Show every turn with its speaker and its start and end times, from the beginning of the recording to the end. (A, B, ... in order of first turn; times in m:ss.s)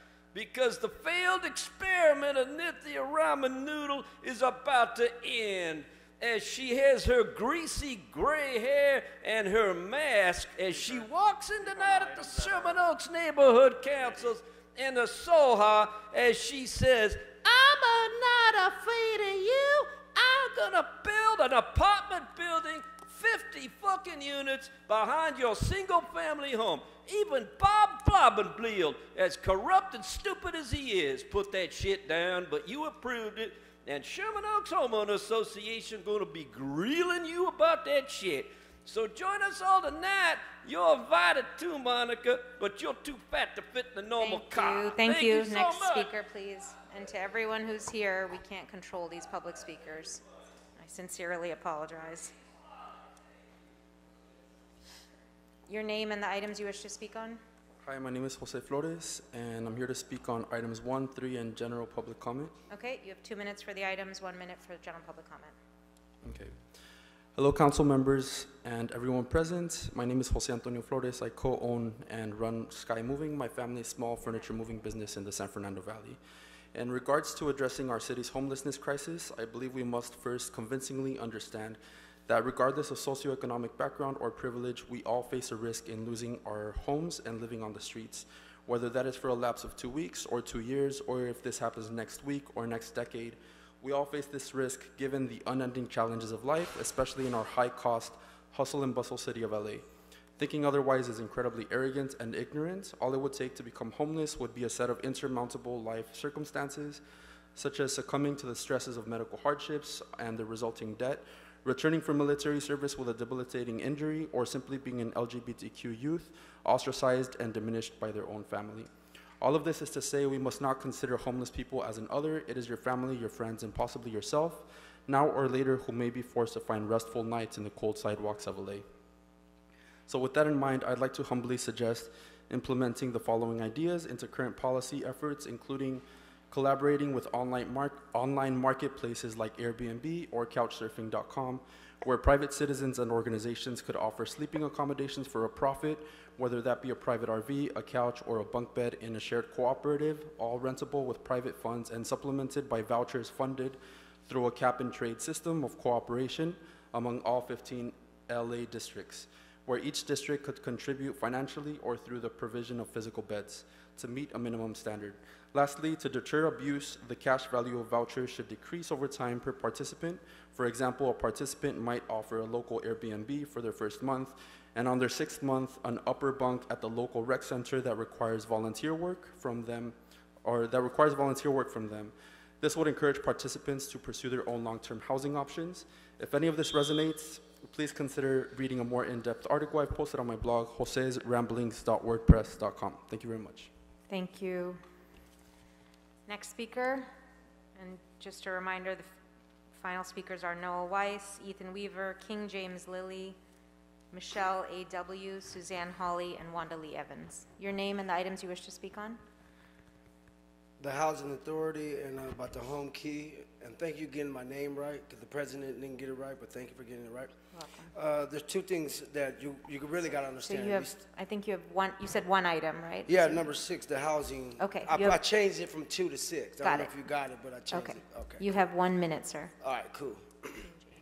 0:00.3-0:46.1 A
0:44.2-0:50.2 B
0:50.8-0:52.3 B
0:55.7-0:57.4 B
0:57.8-1:02.5 C
1:02.7-1:05.5 B
1:06.2-1:06.6 C
1:07.4-1:16.2 C
1:16.7-1:39.8 C
1:40.4-1:47.0 C
1:47.5-1:58.9 C
1:59.4-2:08.9 C
2:10.1-3:13.7 C
3:14.1-3:14.8 B
3:16.3-3:17.1 B
3:17.7-3:19.1 B
3:19.7-3:23.4 B
3:24.1-3:29.2 B
3:30.8-3:37.3 D
3:37.5-3:37.9 B
3:37.9-3:40.9 D
3:40.4-3:43.4 B
3:43.0-3:48.5 D
3:44.6-3:45.2 B
3:46.6-3:46.9 B
3:47.7-3:49.5 B
3:49.6-3:50.7 D